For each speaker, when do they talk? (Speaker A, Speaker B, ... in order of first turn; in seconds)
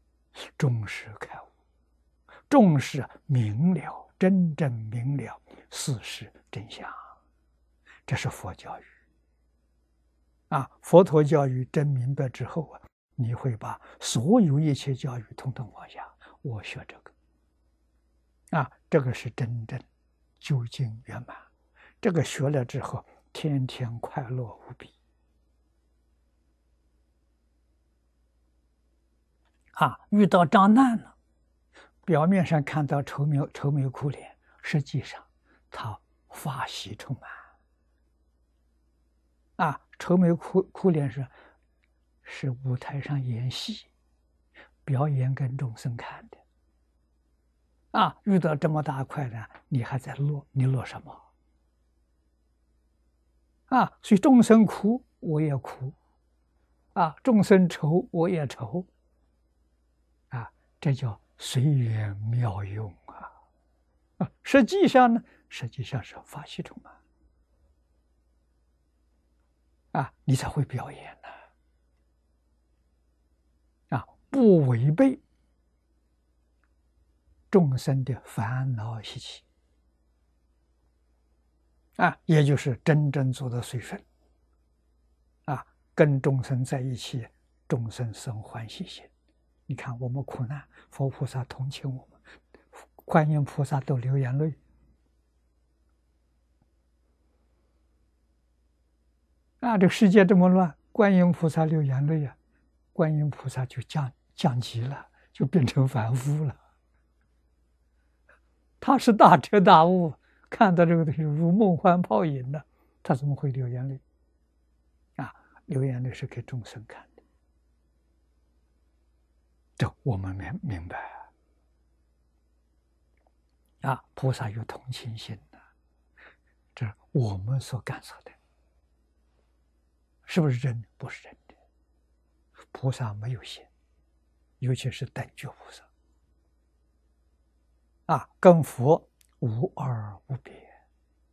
Speaker A: 0.6-1.5, 2.5-7.1, 8.1-8.9, 10.5-17.1, 18.5-19.9, 20.4-21.4, 22.0-24.9, 29.8-31.1, 32.1-37.4, 39.6-41.3, 42.2-43.9, 44.9-46.4, 47.9-51.2, 53.7-56.0, 57.0-58.9, 60.3-63.3, 64.2-67.0, 69.9-71.3, 73.9-75.2, 77.5-79.5, 82.0-84.0, 85.5-89.1, 89.7-92.2, 92.8-94.6, 99.6-102.4, 103.0-106.6, 108.8-114.0, 115.2-117.2, 119.8-121.3, 123.8-125.6, 126.8-128.4, 130.3-131.5, 132.7-133.7, 134.6-135.9, 138.1-140.7